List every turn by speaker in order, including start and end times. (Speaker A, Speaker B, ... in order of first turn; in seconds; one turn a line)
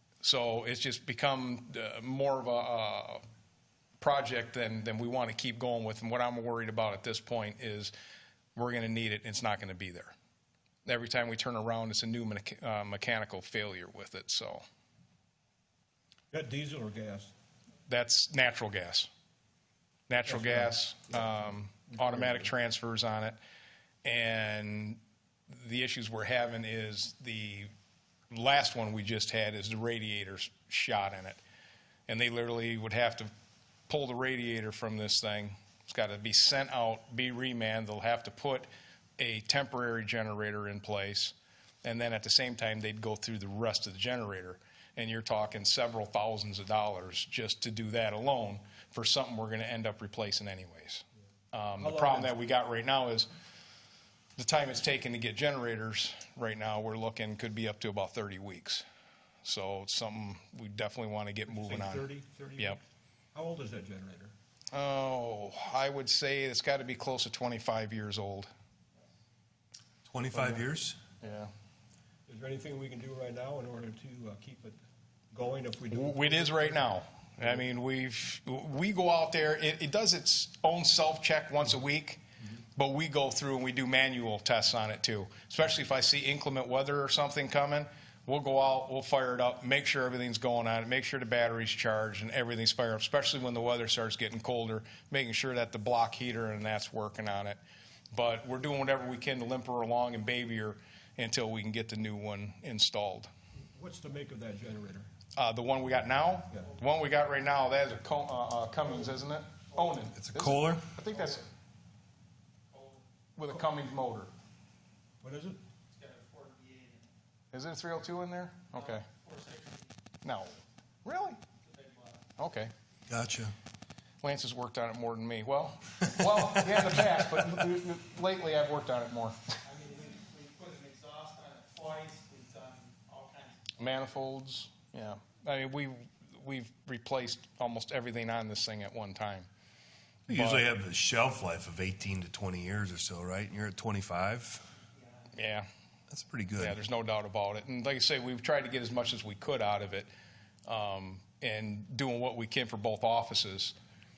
Speaker A: 0.2-3.2
Speaker A: 4.0-7.9
Speaker A: 8.6-10.1
Speaker A: 10.8-14.6
Speaker B: 16.3-17.3
Speaker A: 17.9-19.1
Speaker A: 20.1-23.4
Speaker B: 20.3-20.8
Speaker B: 21.9-22.5
Speaker A: 24.0-27.7
Speaker A: 28.3-31.4
Speaker A: 32.1-33.3
Speaker A: 33.9-53.3
Speaker B: 51.8-52.3
Speaker A: 54.4-58.9
Speaker A: 59.4-62.1
Speaker B: 61.5-62.8
Speaker B: 63.3-64.3
Speaker A: 64.7-68.5
Speaker C: 70.0-71.0
Speaker A: 70.3-70.7
Speaker A: 71.2-71.5
Speaker B: 72.3-74.8
Speaker B: 75.3-77.5
Speaker A: 75.9-82.2
Speaker A: 82.8-97.6
Speaker A: 98.1-103.3
Speaker B: 103.7-105.1
Speaker A: 105.4-111.5
Speaker C: 110.2-110.9
Speaker A: 113.4-114.3
Speaker B: 115.2-115.6
Speaker D: 116.0-117.1
Speaker A: 117.5-119.1
Speaker D: 119.0-119.9
Speaker A: 120.2-121.4
Speaker D: 121.6-122.2
Speaker A: 122.4-122.7
Speaker C: 123.1-123.5
Speaker A: 124.2-129.6
Speaker D: 129.7-133.6
Speaker A: 133.8-139.5
Speaker A: 140.3-140.7
Speaker C: 140.3-144.7
Speaker A: 145.3-145.7
Speaker C: 146.1-146.8
Speaker A: 146.6-150.1
Speaker A: 150.7-153.8